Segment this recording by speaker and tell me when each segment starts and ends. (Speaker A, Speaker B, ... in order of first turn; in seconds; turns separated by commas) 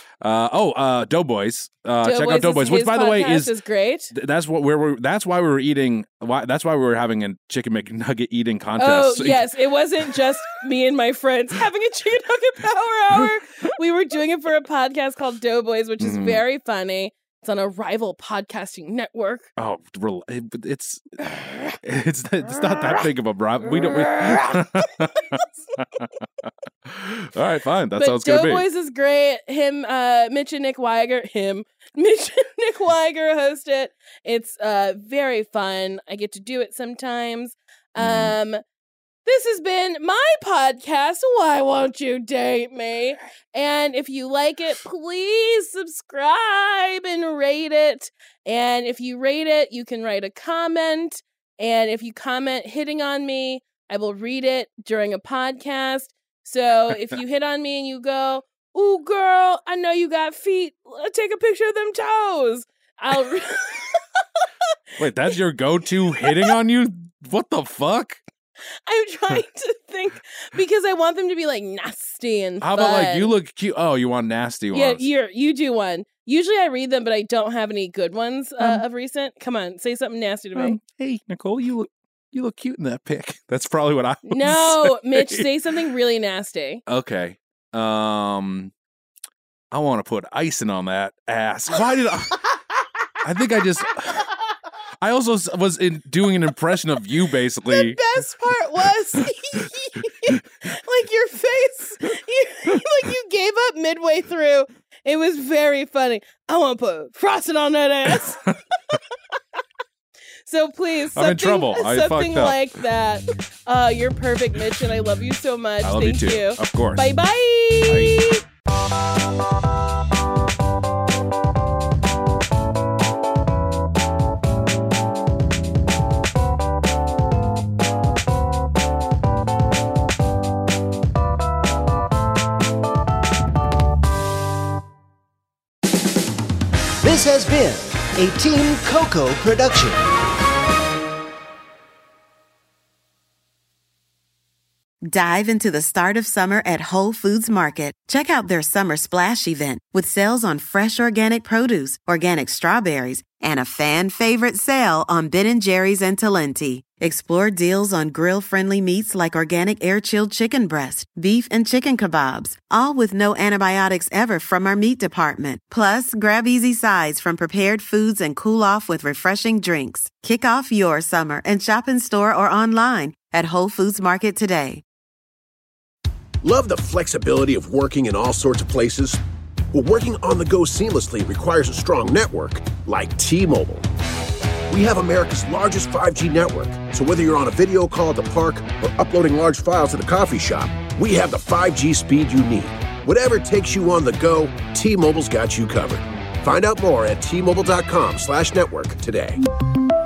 Speaker A: 0.2-3.5, Speaker B: 2.0-4.1, Speaker A: 4.1-9.5, Speaker B: 8.8-19.5, Speaker A: 10.0-10.2, Speaker A: 16.0-16.4, Speaker A: 19.6-28.6, Speaker B: 22.6-23.1, Speaker B: 23.6-25.5, Speaker B: 28.0-38.6, Speaker A: 38.0-38.4, Speaker B: 39.2-64.5, Speaker A: 65.0-68.2, Speaker B: 66.2-66.5, Speaker B: 68.8-73.3, Speaker A: 72.6-75.1, Speaker B: 74.7-80.8, Speaker A: 80.5-85.5, Speaker B: 84.2-86.8, Speaker A: 86.9-88.7, Speaker A: 89.7-92.4, Speaker A: 93.2-94.3, Speaker A: 95.0-98.0, Speaker B: 97.7-108.4, Speaker A: 99.2-100.7, Speaker A: 108.0-108.9, Speaker B: 110.5-118.4, Speaker A: 111.1-112.6, Speaker A: 115.8-117.0, Speaker A: 117.9-118.2, Speaker C: 137.0-139.9, Speaker D: 145.1-174.8, Speaker E: 176.4-179.2, Speaker E: 179.7-183.9, Speaker E: 184.7-199.4